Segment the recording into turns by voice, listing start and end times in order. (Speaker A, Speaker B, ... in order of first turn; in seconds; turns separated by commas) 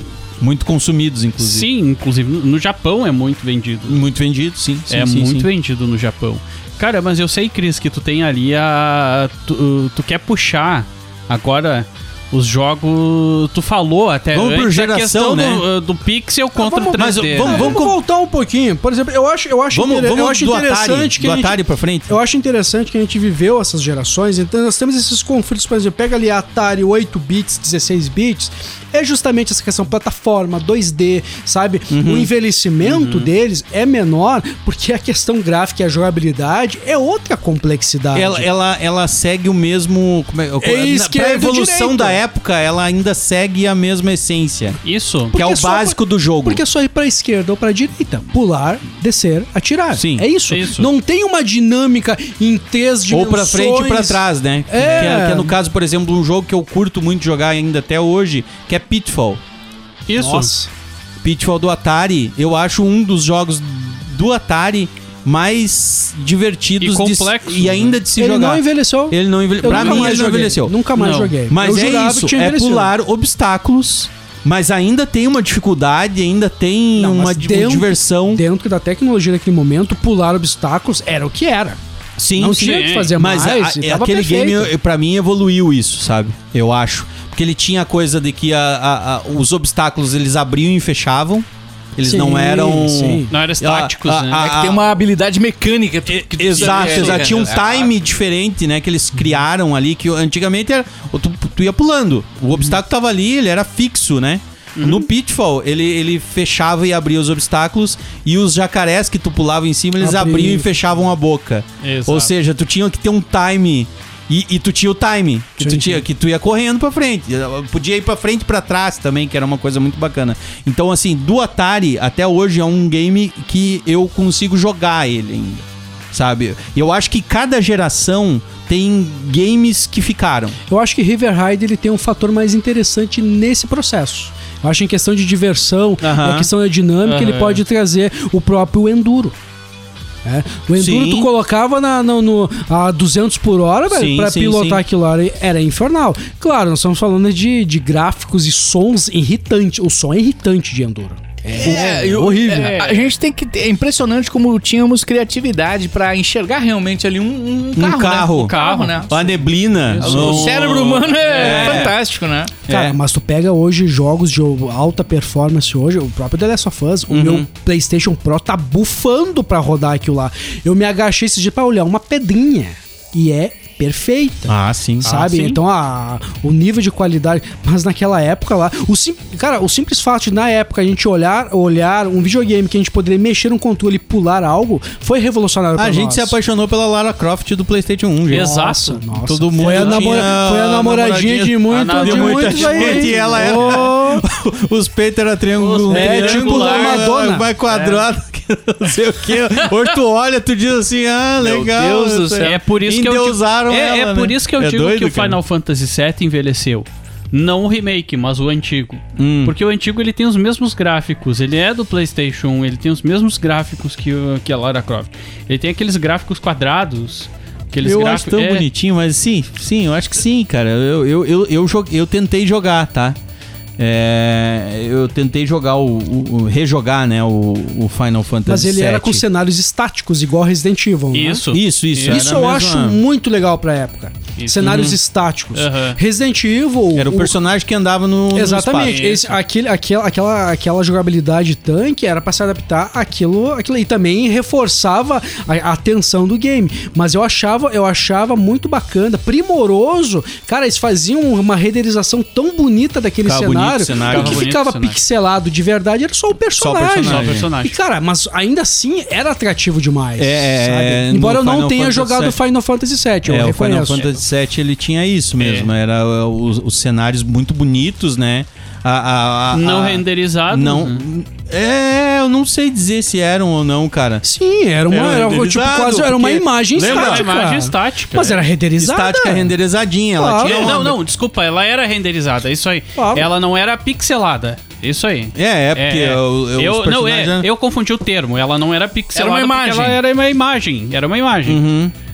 Speaker A: 0.4-1.7, Speaker B: 1.4-4.0, Speaker A: 3.9-5.5, Speaker B: 4.9-17.7, Speaker A: 14.3-15.7, Speaker C: 16.6-38.5, Speaker A: 16.9-17.9, Speaker A: 19.7-22.1, Speaker A: 31.9-32.3, Speaker B: 32.8-33.3, Speaker A: 38.1-44.8, Speaker C: 40.6-42.2, Speaker B: 44.8-45.3, Speaker C: 45.3-55.5, Speaker A: 45.3-46.6, Speaker A: 49.9-50.3, Speaker B: 50.5-50.9, Speaker A: 53.1-59.4, Speaker B: 60.1-60.5, Speaker C: 60.1-60.7, Speaker A: 61.2-70.8, Speaker B: 66.8-68.0, Speaker C: 68.2-72.9, Speaker B: 69.7-70.2, Speaker B: 70.9-71.3, Speaker A: 71.5-78.4, Speaker C: 77.0-81.8, Speaker A: 82.2-94.8, Speaker C: 82.3-84.7, Speaker B: 82.5-83.1, Speaker C: 92.0-93.3, Speaker B: 93.3-94.4, Speaker D: 94.3-97.9, Speaker A: 96.1-130.6, Speaker B: 96.5-97.5, Speaker B: 104.8-105.1, Speaker C: 110.0-110.7, Speaker B: 111.8-112.3, Speaker C: 115.6-116.0, Speaker C: 130.7-139.3, Speaker A: 136.0-136.5, Speaker B: 137.0-137.6, Speaker C: 140.2-152.8, Speaker A: 140.8-141.3, Speaker A: 143.9-144.8, Speaker D: 151.5-159.3, Speaker B: 152.5-153.0, Speaker A: 157.8-158.6, Speaker B: 158.3-161.9, Speaker A: 159.1-161.9, Speaker D: 160.0-162.5, Speaker A: 162.7-163.0, Speaker C: 162.7-186.3, Speaker A: 167.1-167.5, Speaker A: 174.5-175.1, Speaker B: 175.0-175.6, Speaker A: 185.8-188.6, Speaker B: 188.3-190.3, Speaker C: 188.3-194.2, Speaker A: 189.2-205.4, Speaker B: 191.7-193.9, Speaker B: 195.6-197.1, Speaker C: 195.9-197.5, Speaker B: 197.7-198.0, Speaker D: 201.4-202.6, Speaker B: 202.4-218.7, Speaker A: 209.2-209.6, Speaker A: 217.8-223.2, Speaker A: 223.8-229.2, Speaker C: 228.4-231.4, Speaker B: 231.1-232.3, Speaker A: 231.5-233.0, Speaker C: 232.0-237.3, Speaker B: 234.4-234.9, Speaker A: 234.6-235.0, Speaker B: 235.5-236.0, Speaker A: 236.9-239.0, Speaker C: 238.3-264.1, Speaker B: 238.8-239.3, Speaker A: 253.2-254.4, Speaker B: 254.0-255.0, Speaker A: 256.6-257.5, Speaker B: 257.0-257.8, Speaker A: 260.2-262.4, Speaker A: 263.2-274.2, Speaker B: 265.4-265.7, Speaker B: 269.5-271.0, Speaker C: 274.2-279.5, Speaker A: 274.9-277.3, Speaker B: 276.8-278.4, Speaker A: 278.8-281.0, Speaker C: 280.2-280.8, Speaker B: 280.4-291.6, Speaker C: 282.9-283.3, Speaker A: 285.3-287.5, Speaker D: 289.1-290.0, Speaker A: 291.4-291.9